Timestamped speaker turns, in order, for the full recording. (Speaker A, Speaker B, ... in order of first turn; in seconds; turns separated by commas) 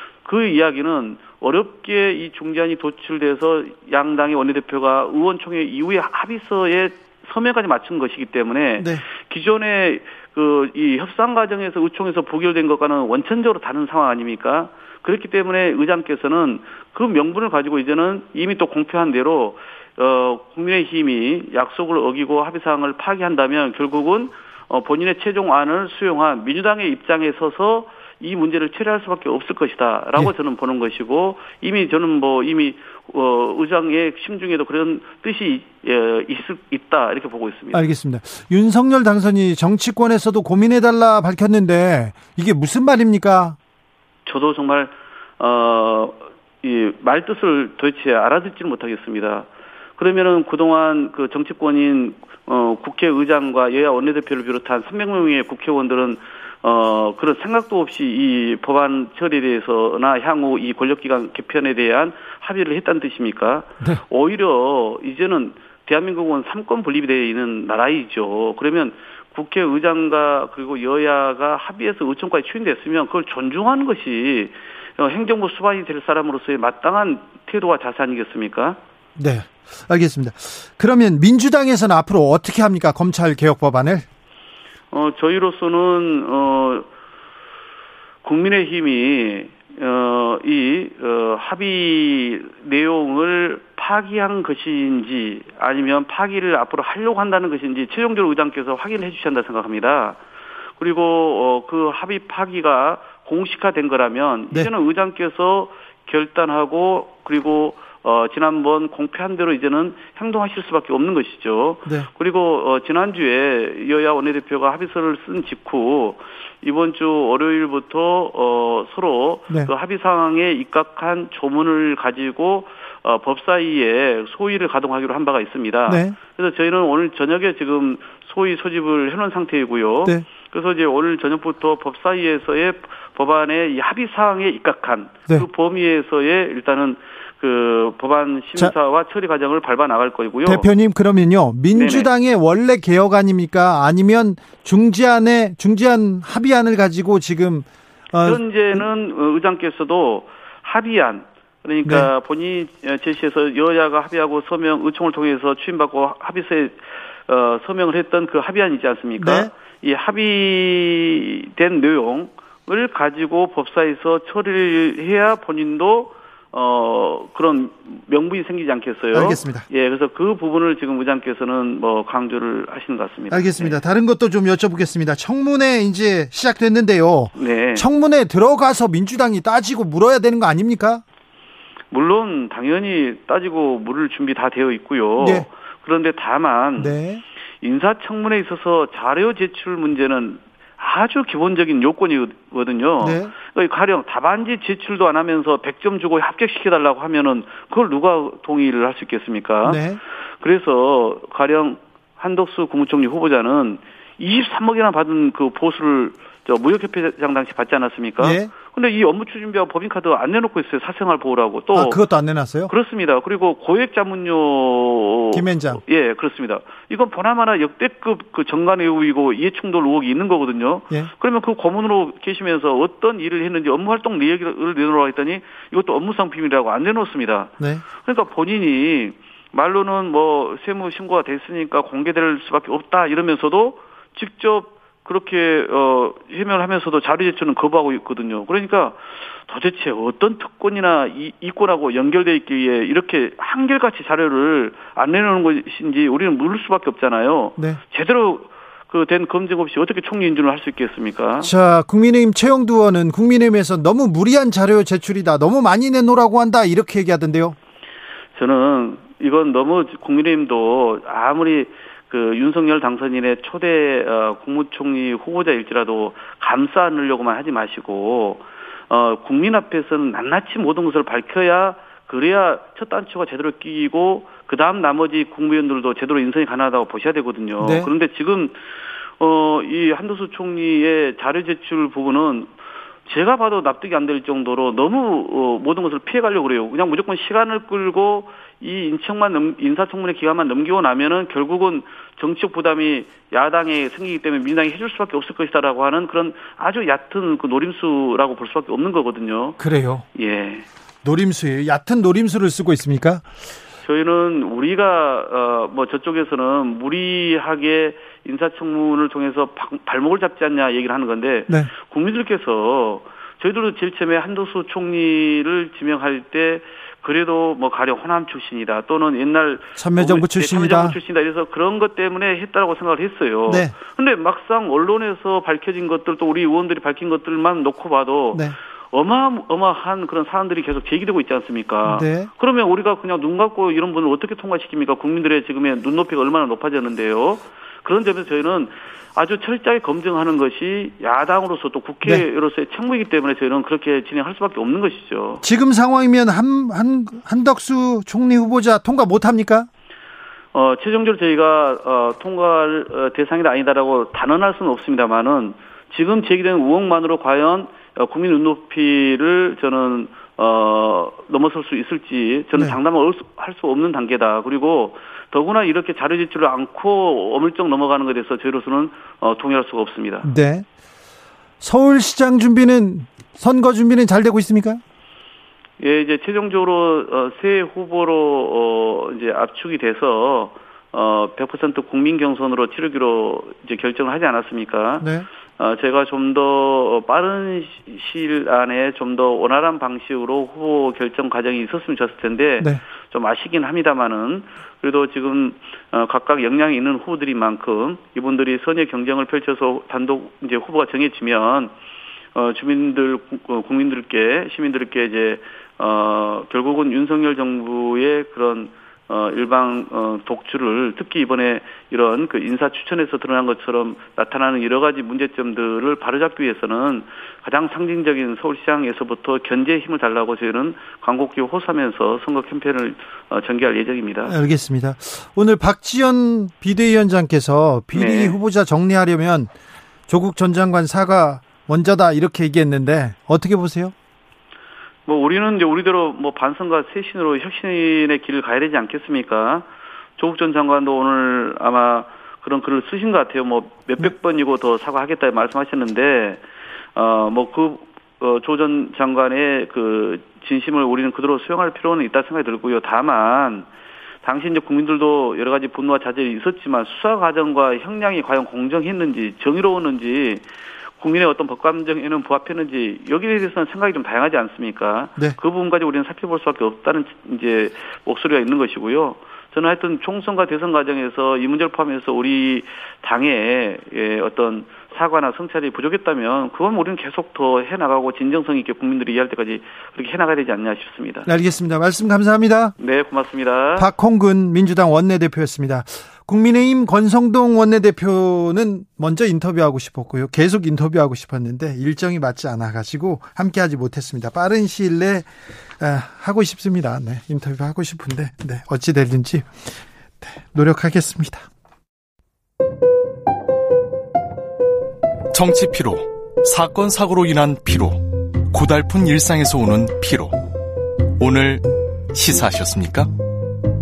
Speaker A: 0.2-37.9, Speaker B: 8.8-9.0, Speaker B: 37.7-43.6, Speaker A: 44.3-78.8, Speaker B: 79.2-84.0, Speaker A: 84.9-86.9, Speaker A: 88.2-100.2, Speaker A: 100.8-140.7, Speaker B: 125.9-126.2, Speaker B: 140.4-148.8, Speaker A: 141.7-142.1, Speaker A: 148.2-173.8, Speaker B: 159.2-159.5, Speaker B: 169.1-169.7, Speaker B: 173.3-181.0, Speaker A: 177.4-177.8, Speaker A: 181.9-187.0, Speaker B: 185.2-185.5, Speaker B: 186.8-187.2, Speaker A: 187.6-199.8, Speaker B: 193.0-193.3, Speaker B: 199.7-200.0, Speaker A: 200.4-212.0, Speaker B: 208.2-208.5, Speaker B: 211.7-212.7, Speaker A: 212.7-251.5, Speaker B: 215.3-215.8, Speaker B: 251.4-257.6, Speaker A: 258.4-278.6, Speaker B: 277.6-277.9, Speaker A: 279.2-282.5, Speaker A: 283.1-299.6, Speaker B: 299.6-300.1, Speaker A: 300.1-300.7, Speaker B: 301.0-303.2, Speaker A: 303.8-345.4, Speaker B: 319.8-321.0, Speaker B: 323.5-323.8, Speaker B: 331.9-332.3, Speaker B: 345.4-349.7, Speaker A: 350.5-370.3, Speaker B: 370.2-370.7, Speaker B: 371.6-374.8, Speaker A: 375.8-385.1, Speaker B: 385.0-385.3, Speaker A: 385.6-401.7, Speaker A: 402.4-424.4, Speaker B: 424.3-429.5, Speaker A: 427.9-428.4, Speaker B: 430.1-433.9, Speaker A: 435.1-439.7, Speaker A: 440.2-446.4, Speaker A: 447.0-453.7, Speaker A: 454.2-460.4, Speaker A: 461.0-481.3, Speaker B: 481.3-482.8, Speaker A: 482.8-483.9, Speaker B: 483.8-501.5, Speaker C: 505.3-510.4, Speaker C: 511.2-513.1